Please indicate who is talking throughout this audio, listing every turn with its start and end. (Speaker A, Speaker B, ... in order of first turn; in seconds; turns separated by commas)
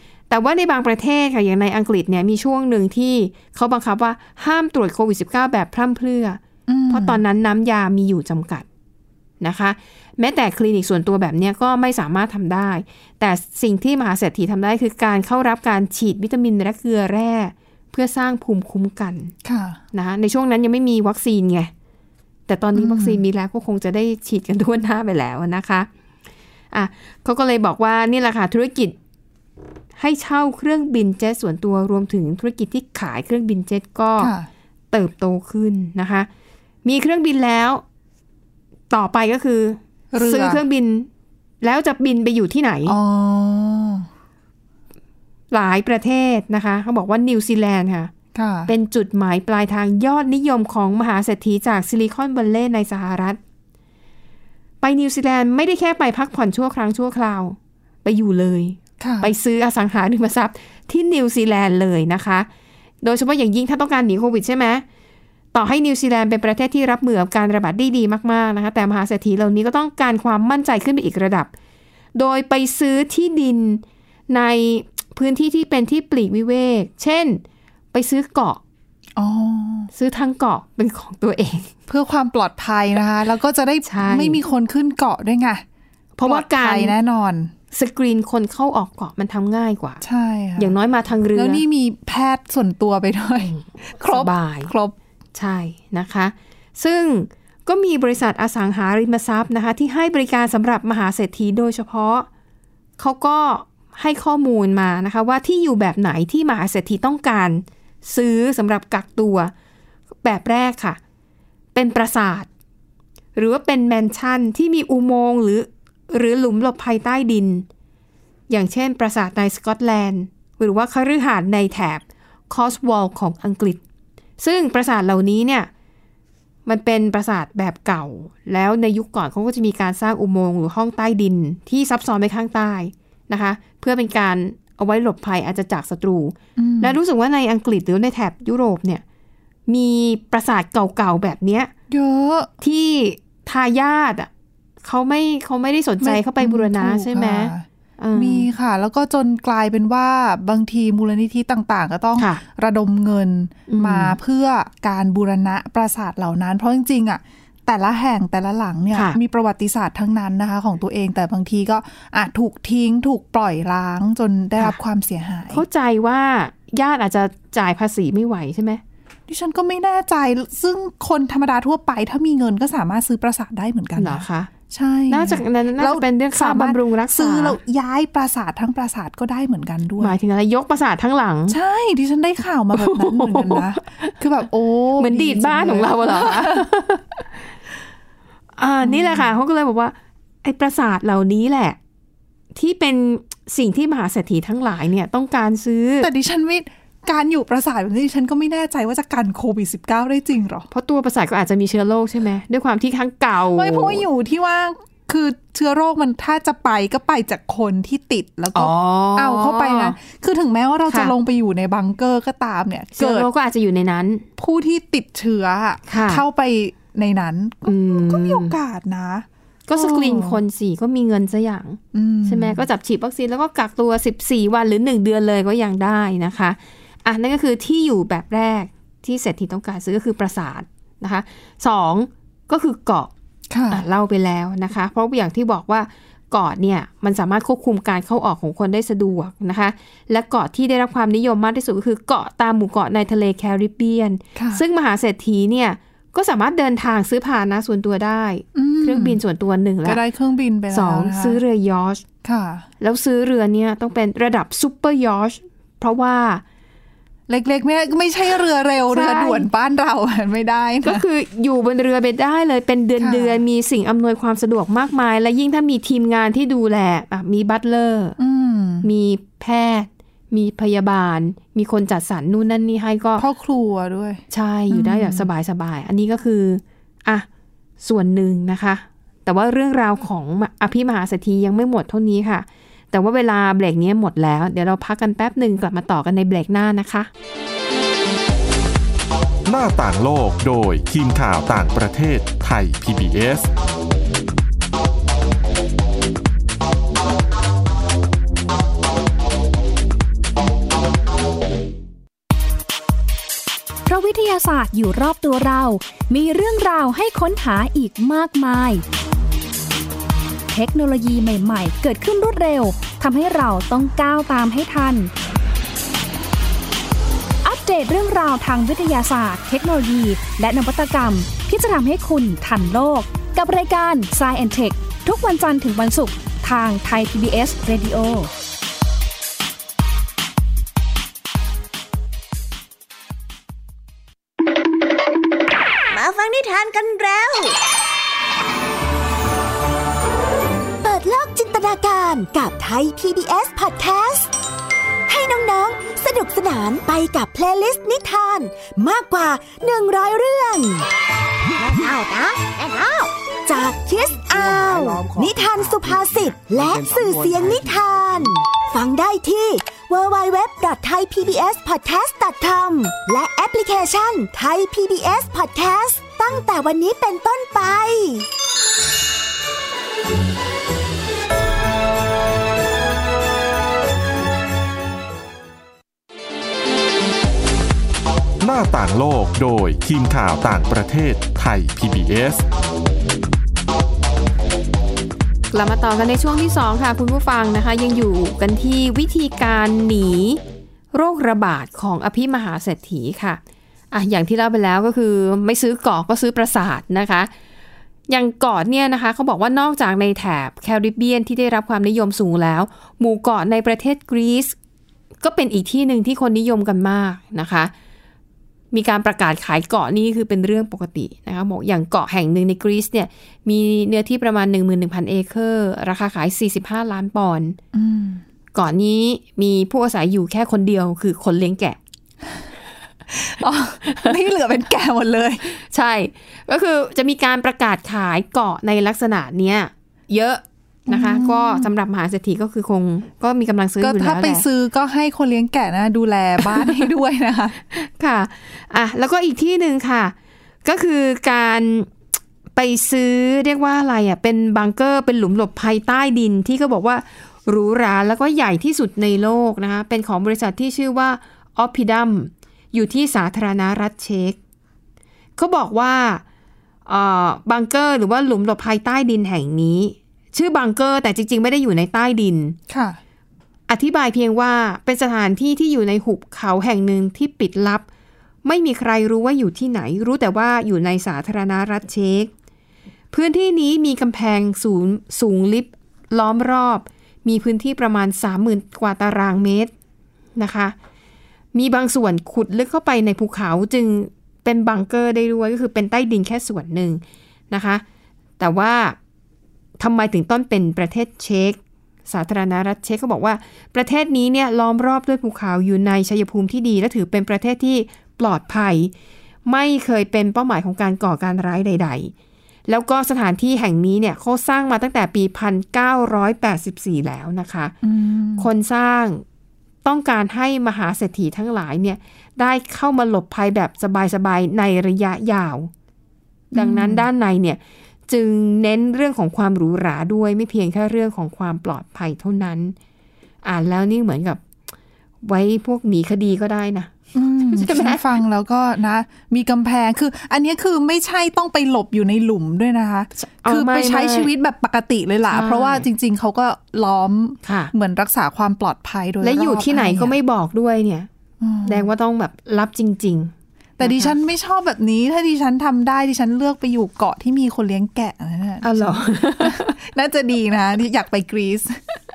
Speaker A: 0.3-8.7, Speaker B: 6.7-7.2, Speaker A: 9.4-19.3, Speaker B: 19.4-19.8, Speaker A: 19.9-21.7, Speaker A: 22.5-25.9, Speaker B: 22.7-23.2, Speaker A: 26.7-28.9, Speaker A: 30.0-34.3, Speaker B: 34.2-34.5, Speaker A: 34.9-36.3, Speaker A: 36.8-37.8, Speaker A: 38.9-41.1, Speaker B: 40.1-40.6, Speaker A: 41.6-43.0, Speaker B: 42.9-44.1, Speaker A: 45.5-48.1, Speaker B: 48.3-48.7, Speaker A: 48.7-53.4, Speaker A: 54.8-62.5, Speaker B: 59.0-59.3, Speaker A: 63.0-64.8, Speaker A: 65.5-71.5, Speaker A: 72.1-77.4, Speaker A: 77.9-78.6, Speaker B: 79.2-79.9, Speaker A: 79.9-81.7, Speaker B: 81.9-85.6, Speaker A: 83.8-84.4, Speaker A: 86.2-86.9, Speaker B: 86.2-87.5, Speaker A: 87.7-90.0, Speaker B: 90.0-90.7, Speaker A: 90.6-91.6, Speaker B: 91.3-94.9, Speaker A: 93.5-94.7, Speaker A: 95.3-102.3, Speaker A: 103.0-109.5, Speaker A: 110.2-111.0, Speaker A: 111.7-112.5, Speaker A: 113.3-117.7, Speaker A: 118.5-123.8, Speaker A: 124.4-125.7, Speaker A: 126.7-139.0, Speaker B: 136.6-137.0, Speaker A: 139.7-141.7, Speaker B: 141.9-142.5, Speaker A: 142.6-144.3, Speaker A: 144.8-148.5, Speaker B: 146.0-165.6, Speaker A: 152.2-152.4, Speaker A: 153.7-154.2, Speaker A: 158.9-159.2, Speaker A: 165.5-168.8, Speaker B: 169.3-180.2, Speaker A: 174.0-174.5, Speaker A: 175.1-177.6, Speaker A: 180.0-181.6, Speaker B: 181.5-186.7, Speaker A: 182.7-184.1, Speaker A: 185.0-187.2, Speaker A: 188.6-191.8, Speaker B: 188.8-189.3, Speaker A: 192.5-196.1, Speaker B: 196.0-200.7, Speaker A: 200.7-204.0, Speaker B: 203.5-213.3, Speaker A: 208.5-210.0, Speaker A: 210.9-211.1, Speaker A: 212.9-214.2, Speaker B: 214.4-220.4, Speaker A: 215.9-216.2, Speaker A: 217.7-218.5, Speaker A: 219.7-233.1, Speaker B: 221.9-222.6, Speaker B: 233.5-233.8, Speaker A: 233.7-250.0, Speaker B: 244.3-244.6, Speaker B: 248.5-249.2, Speaker B: 249.8-251.4, Speaker A: 250.7-252.0, Speaker B: 252.2-252.7, Speaker A: 252.8-256.4, Speaker B: 257.3-261.0, Speaker A: 258.9-259.5, Speaker A: 260.8-268.2, Speaker B: 263.0-263.4, Speaker B: 268.2-268.9, Speaker A: 268.8-273.2, Speaker B: 273.2-275.3, Speaker A: 274.3-277.2, Speaker A: 277.8-287.1, Speaker C: 289.5-293.5, Speaker D: 303.9-308.8, Speaker D: 310.5-315.1, Speaker D: 317.4-328.3, Speaker E: 335.9-337.6, Speaker F: 340.8-344.3, Speaker F: 345.1-350.9, Speaker E: 351.7-353.1, Speaker F: 353.4-368.2, Speaker C: 378.4-382.4, Speaker A: 385.5-390.4, Speaker A: 390.9-393.4, Speaker A: 393.9-397.3, Speaker A: 398.1-404.5, Speaker A: 405.2-407.7, Speaker A: 408.7-417.6, Speaker B: 417.7-418.2, Speaker A: 418.5-421.8, Speaker B: 423.1-425.5, Speaker A: 425.5-434.4, Speaker B: 430.9-431.7, Speaker B: 433.8-437.6, Speaker A: 436.5-436.8, Speaker A: 437.7-440.1, Speaker A: 440.6-441.9, Speaker A: 442.5-454.4, Speaker A: 455.4-456.2, Speaker A: 456.9-462.6, Speaker B: 462.7-463.0, Speaker A: 463.7-467.8, Speaker A: 468.4-472.3, Speaker A: 473.1-479.7, Speaker A: 480.4-480.7, Speaker A: 481.5-487.8, Speaker A: 488.4-488.9, Speaker A: 489.8-498.9, Speaker A: 499.4-502.1, Speaker A: 502.7-507.7, Speaker B: 507.8-508.5, Speaker A: 508.4-509.2, Speaker A: 509.8-515.7, Speaker A: 516.5-522.7, Speaker B: 516.5-517.1, Speaker A: 523.4-524.4, Speaker A: 525.2-528.0, Speaker B: 527.1-540.1, Speaker A: 533.2-534.3, Speaker A: 535.3-535.9, Speaker A: 537.4-537.7, Speaker A: 539.2-541.1, Speaker B: 541.4-541.9, Speaker A: 541.6-544.1, Speaker B: 543.8-551.8, Speaker A: 548.6-549.7